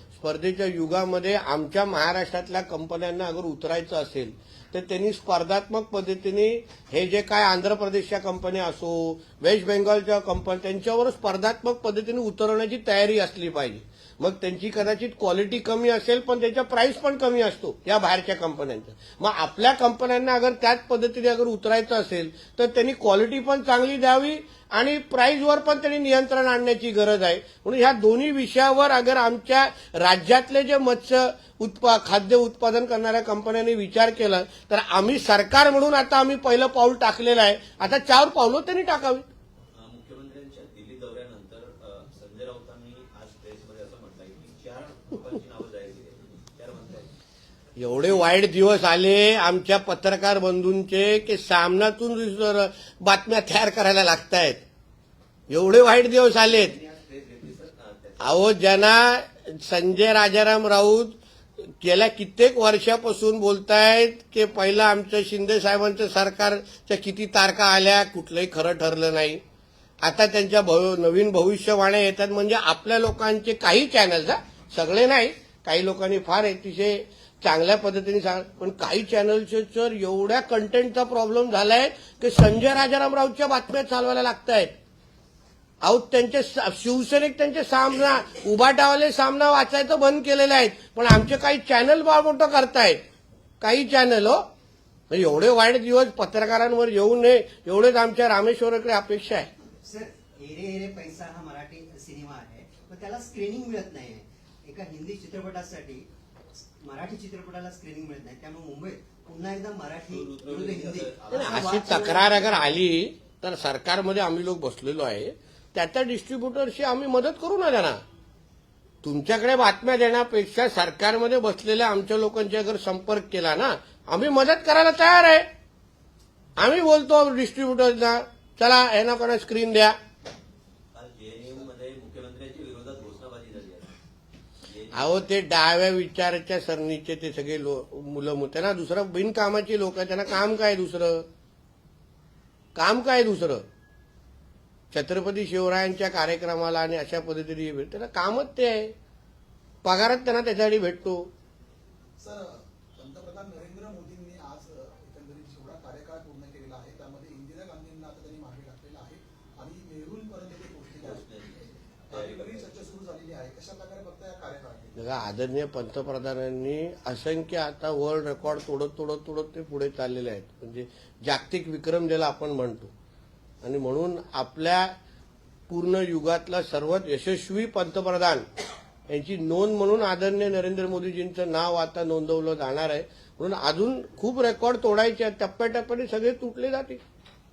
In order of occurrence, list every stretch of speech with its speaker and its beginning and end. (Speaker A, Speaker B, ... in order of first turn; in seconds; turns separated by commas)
Speaker A: 0.2-39.3, Speaker B: 39.7-47.1, Speaker A: 47.8-54.6, Speaker A: 55.5-56.8, Speaker B: 56.4-58.6, Speaker A: 58.2-61.2, Speaker A: 61.8-69.4, Speaker A: 70.0-84.7, Speaker A: 85.8-93.0, Speaker A: 93.6-94.5, Speaker A: 95.1-99.5, Speaker C: 99.8-106.1, Speaker C: 106.8-112.6, Speaker B: 110.1-112.4, Speaker A: 111.3-118.0, Speaker A: 119.0-125.5, Speaker A: 126.6-130.0, Speaker B: 130.9-133.9, Speaker B: 134.7-135.3, Speaker A: 134.9-141.3, Speaker A: 142.8-143.7, Speaker A: 144.9-148.9, Speaker A: 149.8-151.3, Speaker D: 152.2-161.3, Speaker B: 161.0-162.7, Speaker D: 162.1-165.0, Speaker A: 165.0-172.9, Speaker A: 173.6-174.9, Speaker A: 175.7-178.5, Speaker A: 179.1-187.0